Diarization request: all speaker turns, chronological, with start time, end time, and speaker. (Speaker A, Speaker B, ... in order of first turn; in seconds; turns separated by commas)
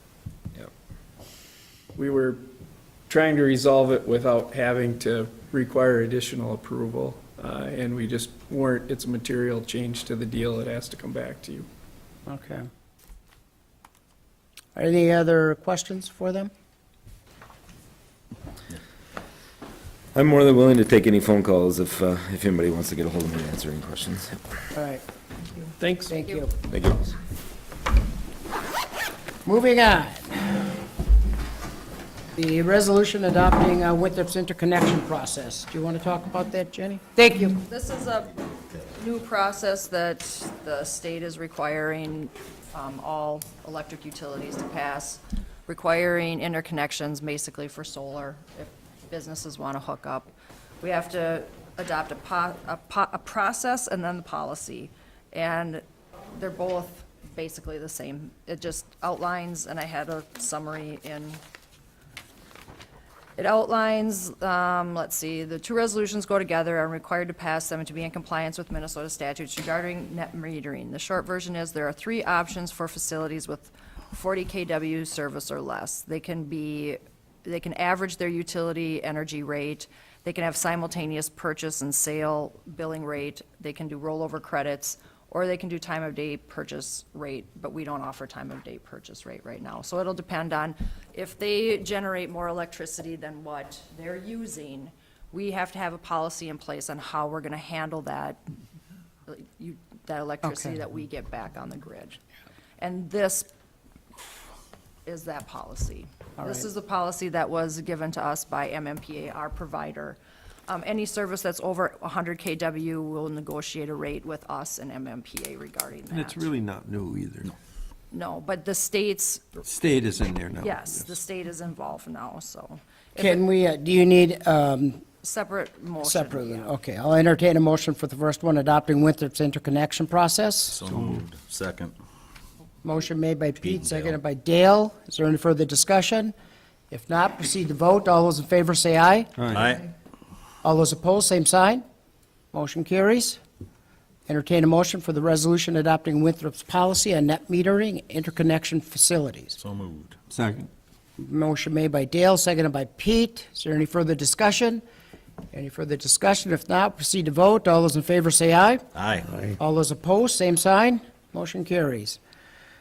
Speaker A: 1.9-2.4, Speaker A: 3.1-11.7, Speaker B: 12.3-12.7, Speaker B: 14.8-16.5, Speaker C: 20.1-24.4, Speaker B: 24.7-25.0, Speaker A: 25.8-26.1, Speaker B: 26.1-26.5, Speaker D: 26.2-26.5, Speaker C: 26.6-27.1, Speaker B: 29.4-30.6, Speaker B: 32.3-37.6, Speaker D: 37.6-38.3, Speaker D: 38.9-61.4, Speaker D: 63.4-98.4, Speaker D: 99.3-102.2, Speaker B: 100.4-100.8, Speaker D: 102.8-103.5, Speaker D: 105.0-116.5, Speaker B: 106.4-106.7, Speaker E: 116.1-117.5, Speaker D: 118.1-119.4, Speaker E: 119.7-121.2, Speaker D: 120.6-123.4, Speaker B: 123.2-125.0, Speaker D: 125.2-126.7, Speaker B: 126.0-130.8, Speaker F: 130.7-131.9, Speaker E: 130.9-131.2, Speaker B: 132.8-136.3, Speaker F: 133.6-134.2, Speaker B: 136.9-139.3, Speaker E: 139.4-139.7, Speaker F: 139.5-139.9, Speaker B: 140.6-141.8, Speaker B: 142.5-143.4, Speaker B: 144.3-149.6, Speaker F: 149.6-150.2, Speaker E: 150.3-150.7, Speaker B: 151.2-154.8, Speaker B: 155.5-158.8, Speaker F: 158.9-159.4, Speaker B: 159.6-162.2